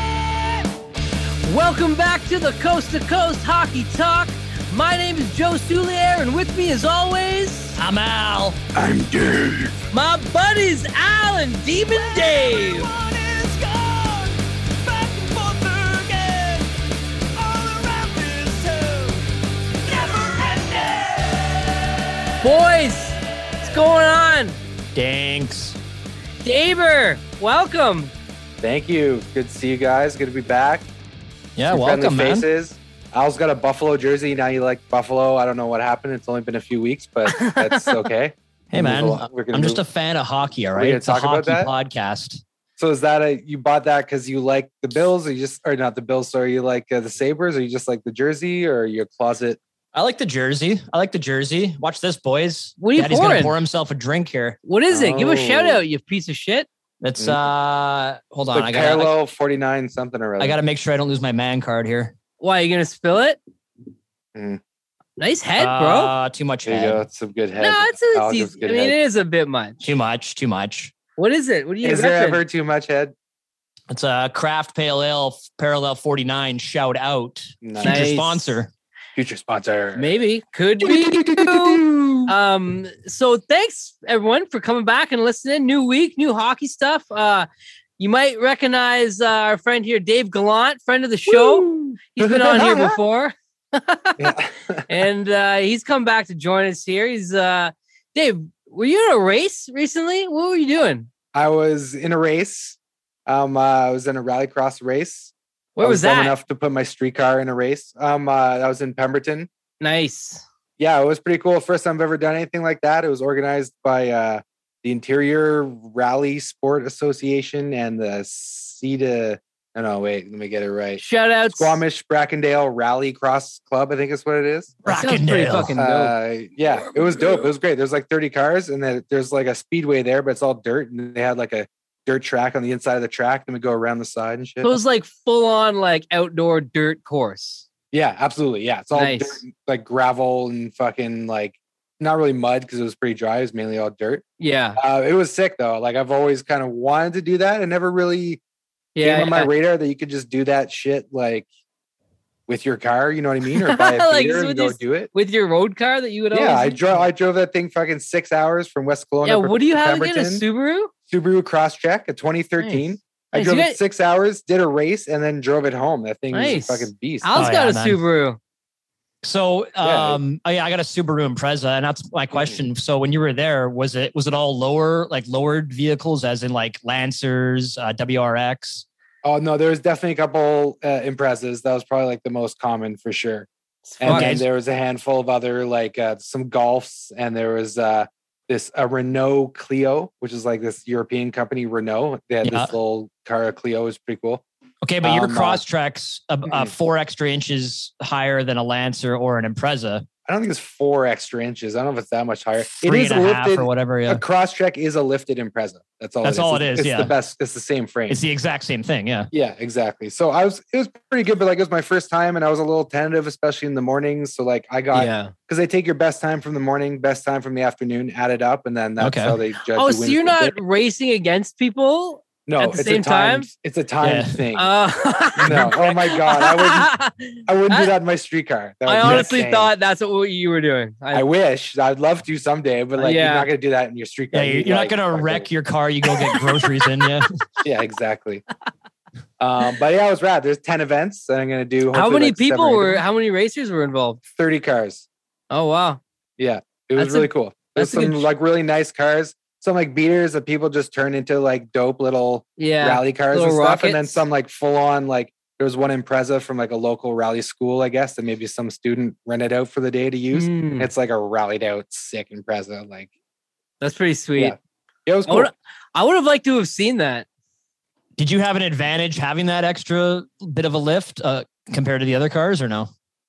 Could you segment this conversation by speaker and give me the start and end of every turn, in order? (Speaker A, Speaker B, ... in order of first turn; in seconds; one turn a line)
Speaker A: 1.4-7.8
Speaker B: 7.8-8.6
Speaker C: 8.7-9.8
Speaker A: 9.9-12.9
Speaker B: 11.9-12.9
Speaker B: 15.6-16.6
Speaker B: 17.6-18.6
Speaker A: 22.4-24.5
Speaker B: 24.9-25.8
Speaker A: 26.4-28.1
Speaker C: 28.6-30.9
Speaker B: 31.6-32.4
Speaker C: 31.7-39.8
Speaker A: 37.3-38.0
Speaker B: 38.7-42.4
Speaker C: 40.7-41.7
Speaker C: 42.8-49.6
Speaker B: 49.9-54.6
Speaker A: 52.8-53.5
Speaker A: 54.6-56.7
Speaker C: 54.9-55.8
Speaker B: 57.0-59.1
Speaker C: 58.5-60.6
Speaker B: 60.4-62.1
Speaker A: 62.4-63.4
Speaker C: 64.3-64.6
Speaker A: 65.2-66.1
Speaker B: 65.6-67.0
Speaker C: 66.6-69.0
Speaker A: 67.6-69.9
Speaker B: 69.8-70.9
Speaker A: 71.2-72.4
Speaker C: 71.8-73.1
Speaker B: 73.9-78.7
Speaker C: 77.6-78.0
Speaker A: 77.8-78.5
Speaker C: 79.1-80.0
Speaker A: 80.0-87.5
Speaker C: 80.8-82.3
Speaker A: 88.0-94.3
Speaker C: 91.3-93.0
Speaker C: 94.2-94.8
Speaker A: 94.9-101.1
Speaker C: 101.3-109.5
Speaker A: 105.8-106.3
Speaker A: 109.8-110.4
Speaker C: 110.8-121.0
Speaker A: 121.0-121.8
Speaker C: 121.5-124.8
Speaker B: 124.8-125.7
Speaker A: 124.9-126.1
Speaker C: 125.8-134.8
Speaker A: 126.8-127.3
Speaker A: 134.6-137.7
Speaker C: 137.9-144.2
Speaker A: 138.9-139.4
Speaker A: 144.4-144.8
Speaker C: 144.8-148.4
Speaker A: 148.9-149.5
Speaker C: 149.0-151.5
Speaker C: 152.5-155.1
Speaker A: 153.5-157.1
Speaker C: 156.3-160.4
Speaker A: 159.2-160.9
Speaker C: 161.1-167.4
Speaker A: 163.3-163.8
Speaker A: 166.3-168.4
Speaker B: 167.3-168.0
Speaker B: 169.2-178.8
Speaker C: 169.8-170.2
Speaker C: 172.3-172.6
Speaker C: 179.2-183.5
Speaker A: 183.8-184.3
Speaker C: 184.0-194.4
Speaker B: 184.0-184.4
Speaker B: 192.4-192.7
Speaker B: 194.8-200.0
Speaker C: 195.0-195.6
Speaker C: 196.5-196.7
Speaker C: 200.3-208.2
Speaker B: 202.7-204.2
Speaker B: 206.2-207.1
Speaker B: 208.1-209.3
Speaker C: 209.3-220.5
Speaker A: 214.9-215.3
Speaker B: 219.0-219.3
Speaker A: 219.8-223.5
Speaker C: 222.4-224.7
Speaker B: 224.0-224.4
Speaker A: 224.5-227.9
Speaker C: 225.3-226.9
Speaker C: 227.5-229.7
Speaker A: 228.8-231.3
Speaker B: 229.0-229.3
Speaker C: 231.1-235.5
Speaker A: 233.0-233.5
Speaker B: 234.3-237.3
Speaker A: 236.3-236.6
Speaker C: 237.6-238.4
Speaker C: 239.4-243.0
Speaker A: 241.9-244.2
Speaker C: 244.3-245.1
Speaker A: 245.5-246.0
Speaker C: 246.4-263.1
Speaker A: 247.0-248.2
Speaker A: 252.6-254.2
Speaker A: 260.3-260.9
Speaker A: 263.8-264.5
Speaker C: 264.4-265.5
Speaker A: 265.3-267.2
Speaker B: 268.2-272.9